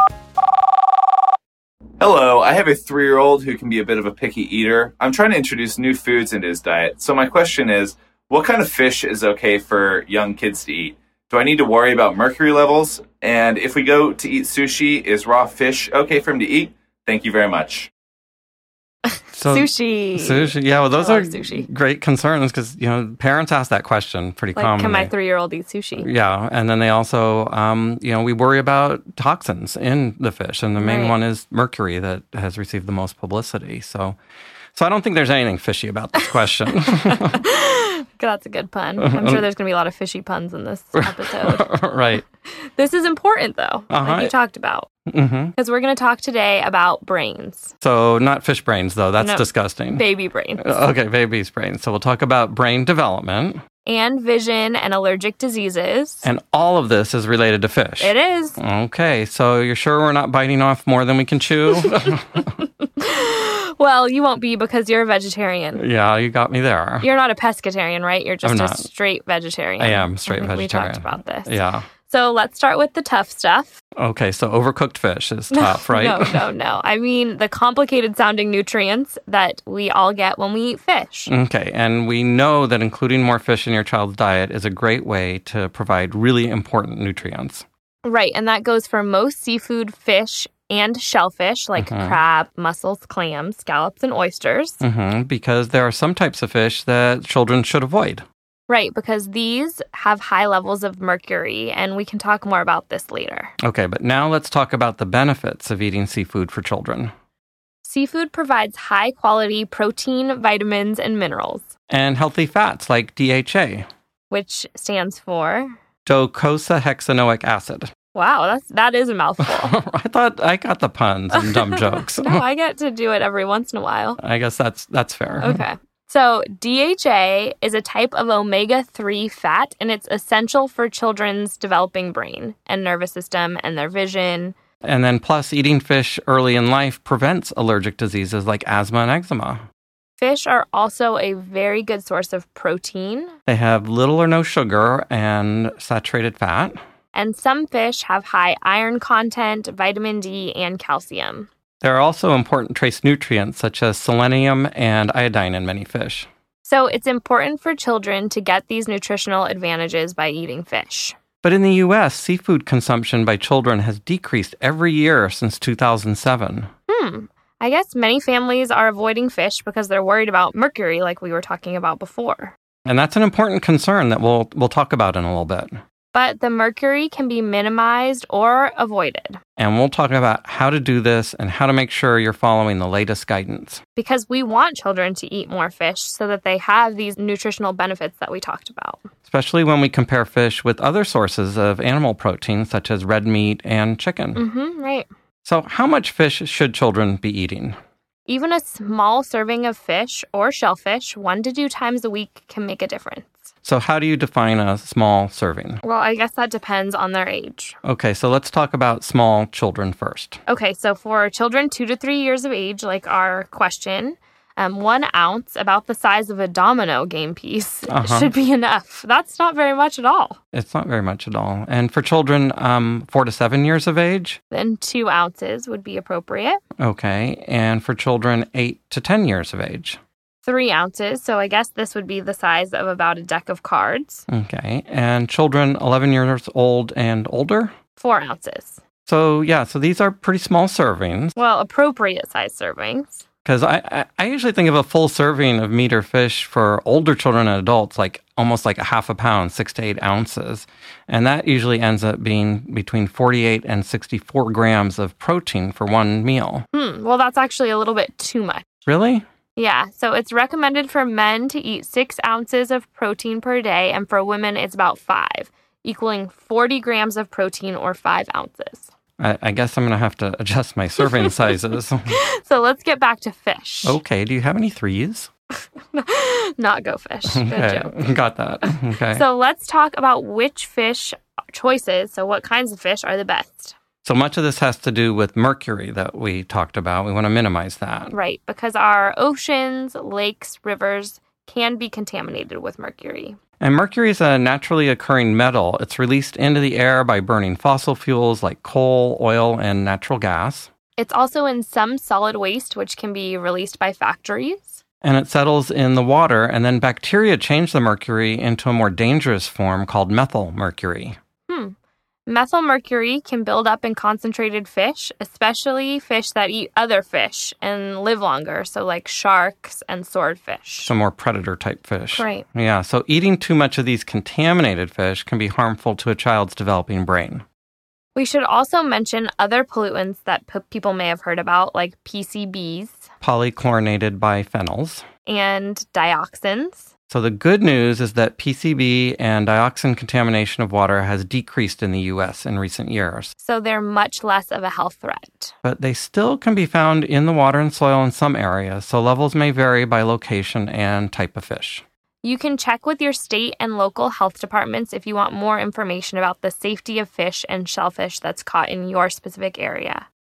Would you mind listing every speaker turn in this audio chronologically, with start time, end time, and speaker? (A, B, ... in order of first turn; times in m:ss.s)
0:02.0-0:17.9 A
0:19.3-0:25.1 B
0:19.4-0:21.6 C
0:24.5-0:26.1 C
0:26.0-0:34.2 B
0:30.8-0:31.1 C
0:34.7-0:37.4 B
0:36.8-0:41.7 C
0:39.0-0:39.4 B
0:41.0-0:42.2 B
0:42.6-0:44.9 C
0:43.9-0:44.3 B
0:45.1-0:45.5 B
0:45.6-0:47.7 C
0:47.8-0:50.0 B
0:49.2-0:50.8 C
0:50.6-0:53.6 B
0:53.8-0:56.2 C
0:56.2-1:02.5 B
0:58.0-0:58.6 C
1:01.8-1:05.8 C
1:05.7-1:07.1 B
1:07.0-1:13.8 C
1:08.4-1:08.9 B
1:09.8-1:11.9 B
1:14.0-1:16.4 B
1:15.5-1:21.3 C
1:21.3-1:27.6 B
1:28.0-1:34.8 C
1:31.8-1:32.2 B
1:34.8-1:38.2 B
1:38.7-1:43.5 C
1:43.6-1:47.1 B
1:47.8-1:51.7 C
1:51.9-1:53.9 B
1:54.3-1:55.7 C
1:56.0-1:57.9 B
1:58.1-1:59.7 C
1:59.4-2:02.4 B
2:01.3-2:04.2 C
2:04.2-2:05.6 B
2:05.4-2:14.5 C
2:14.8-2:19.6 B
2:20.2-2:23.3 C
2:23.5-2:26.8 B
2:27.1-2:31.5 C
2:31.8-2:36.3 B
2:36.6-2:41.2 C
2:41.4-2:46.7 B
2:46.9-2:52.5 C
2:52.8-2:55.8 B
2:56.1-2:59.4 C
2:59.6-3:03.8 B
3:04.0-3:09.0 C
3:09.3-3:14.4 B
3:14.4-3:15.1 C
3:15.4-3:17.8 B
3:18.3-3:23.4 C
3:23.6-3:25.8 B
3:25.8-3:27.8 C
3:27.8-3:30.4 B
3:30.5-3:40.4 C
3:37.9-3:38.3 B
3:40.5-3:44.4 B
3:44.5-3:46.6 C
3:46.8-3:50.0 B
3:50.4-3:54.3 C
3:54.3-3:57.7 B
3:58.0-3:58.8 C
3:59.0-4:01.3 B
4:01.3-4:03.2 C
4:03.4-4:16.6 B
4:16.7-4:18.7 C
4:18.8-4:19.2 B
4:19.6-4:28.9 C
4:29.2-4:32.2 B
4:31.0-4:31.3 C
4:32.1-4:34.0 C
4:33.8-4:35.3 B
4:35.9-4:38.1 C
4:37.3-4:39.2 B
4:38.6-4:43.8 C
4:44.0-4:48.1 B
4:48.1-4:53.4 C
4:53.6-5:00.7 B
5:01.0-5:04.7 C
5:05.0-5:11.2 B
5:11.5-5:11.7 C
5:12.3-5:20.9 C
5:20.9-5:27.4 B
5:22.1-5:22.4 C
5:28.1-5:33.0 C
5:33.2-5:35.0 B
5:35.2-5:36.9 C
5:37.1-5:43.3 B
5:43.4-5:45.5 C
5:45.6-5:51.8 B
5:52.2-6:00.0 C